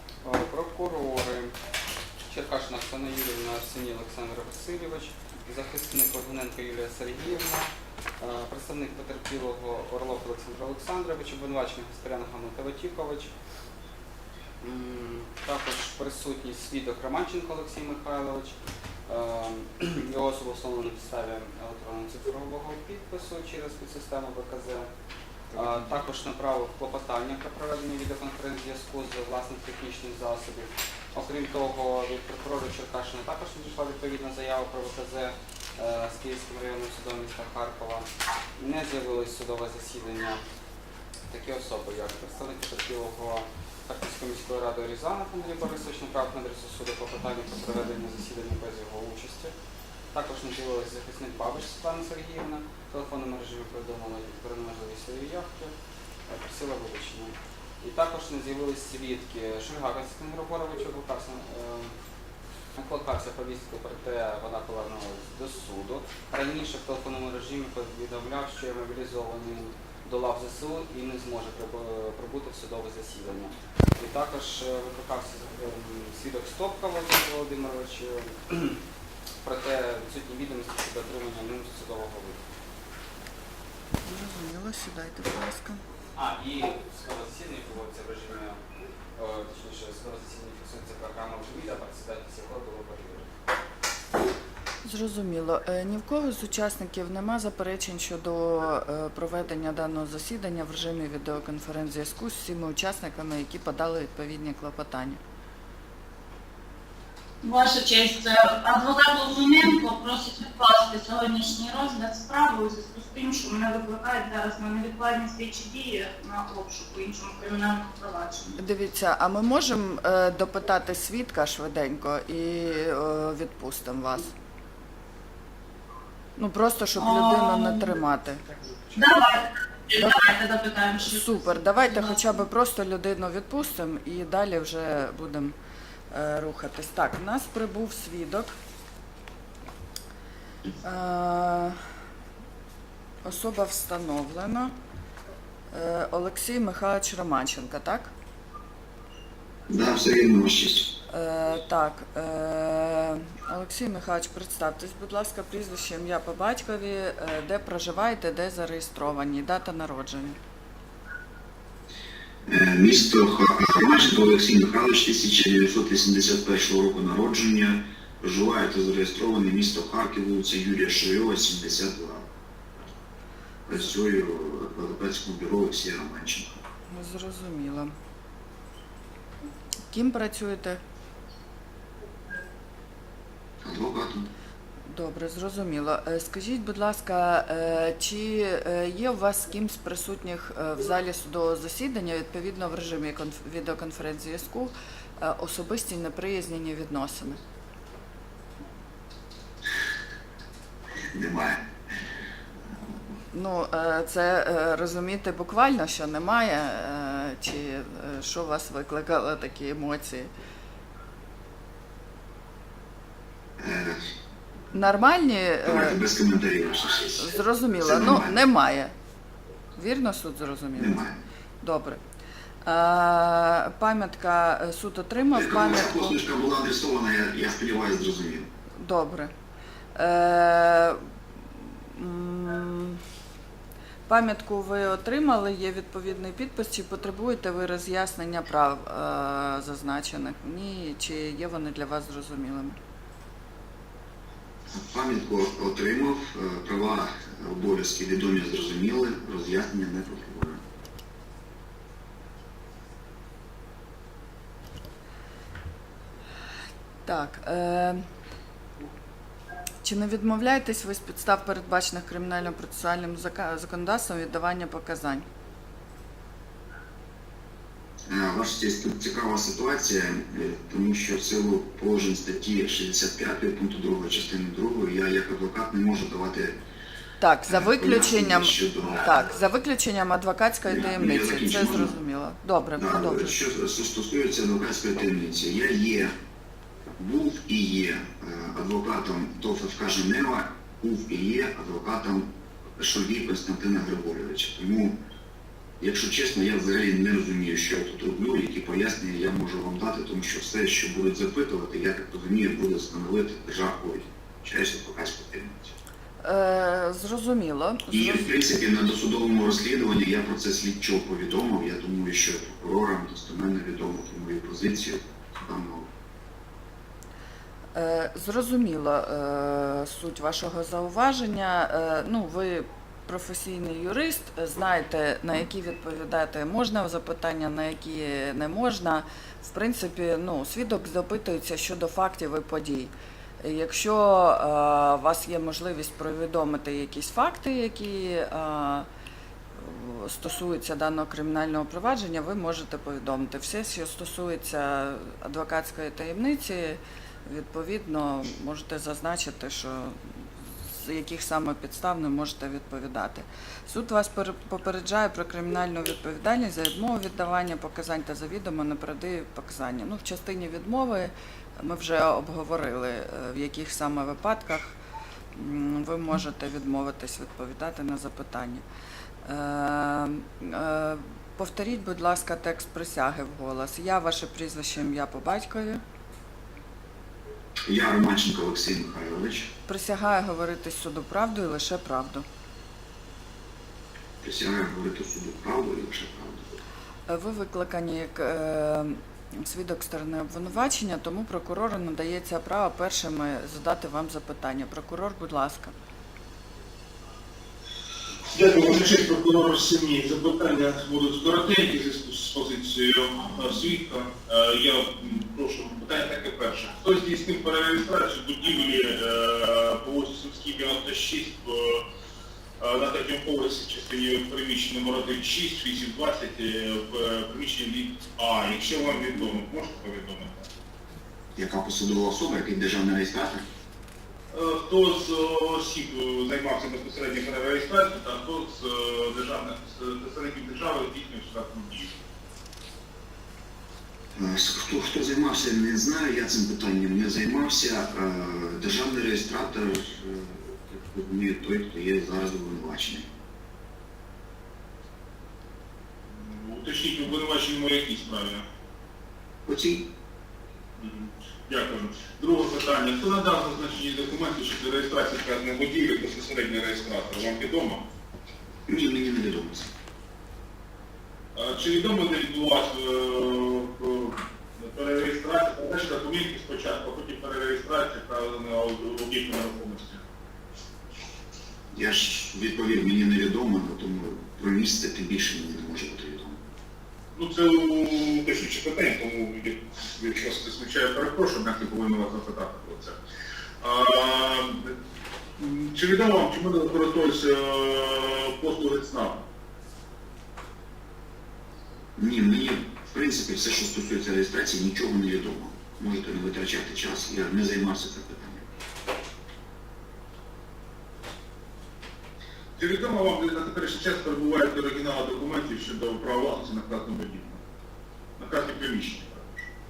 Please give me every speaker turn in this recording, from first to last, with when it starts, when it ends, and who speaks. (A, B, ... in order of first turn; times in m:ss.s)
0:00.2-0:01.5 A
0:02.3-0:07.7 A
0:08.2-0:13.3 A
0:14.6-0:24.9 A
0:25.5-0:40.4 A
0:41.3-0:49.5 A
0:50.1-0:55.7 A
0:56.3-1:01.9 A
1:02.8-1:18.8 A
1:19.4-1:22.4 A
1:24.0-1:25.8 B
1:26.2-1:28.6 A
1:29.2-1:33.3 A
1:34.8-1:45.2 B
1:47.4-1:58.5 C
1:58.6-2:04.3 B
2:06.4-2:08.4 B
2:07.0-2:07.9 C
2:08.9-2:12.3 C
2:10.0-2:10.2 B
2:11.0-2:15.6 B
2:16.1-2:18.6 B
2:20.8-2:21.8 B
2:23.2-2:24.7 B
2:25.7-2:28.1 B
2:29.7-2:30.9 D
2:31.1-2:40.4 B
2:42.5-2:52.3 D
2:53.7-2:56.6 D
2:56.9-2:57.9 B
2:59.9-3:00.8 B
3:03.6-3:04.3 D
3:04.9-3:17.4 B
3:21.1-3:21.7 D
3:23.3-3:30.3 B
3:33.6-3:34.0 D
3:34.7-3:36.0 B
3:35.6-3:38.3 D
3:37.2-3:38.9 B
3:39.8-3:41.0 B
3:40.8-3:41.2 D
3:41.6-3:42.0 B
3:42.6-3:46.2 B
3:45.3-3:48.5 D
3:48.8-3:49.3 B
3:49.9-3:51.0 B
3:51.9-3:53.0 B
3:54.1-4:02.8 B
4:04.7-4:10.6 D
4:17.0-4:18.0 B
4:19.8-4:25.2 B
4:28.1-4:36.6 D
4:37.2-4:43.4 B
4:37.5-4:39.2 D
4:40.7-4:42.0 D
4:42.8-4:46.2 D
4:47.0-4:55.0 D
4:55.8-5:05.8 D
5:06.2-5:08.3 B
5:07.9-5:15.9 D
5:17.8-5:38.9 B
5:39.6-5:50.0 B
5:50.6-6:04.8 B
6:05.3-6:08.6 B
6:09.2-6:15.8 B
6:17.7-6:19.5 D
6:19.7-6:22.2 B
6:24.2-6:26.6 D
6:27.1-6:35.7 B
6:38.3-6:51.8 E
6:52.6-7:00.5 E
7:01.4-7:03.4 D
7:04.3-7:11.9 E
7:14.1-7:23.1 D
7:26.1-7:28.5 E
7:29.4-7:29.9 D
7:30.8-7:37.8 E
7:38.7-7:39.7 D
7:41.3-7:50.0 E
7:51.7-7:56.4 D
7:57.1-8:03.0 E
8:03.6-8:04.7 E
8:05.4-8:09.2 E
8:12.0-8:18.5 D
8:22.6-8:27.4 E
8:28.2-8:29.5 E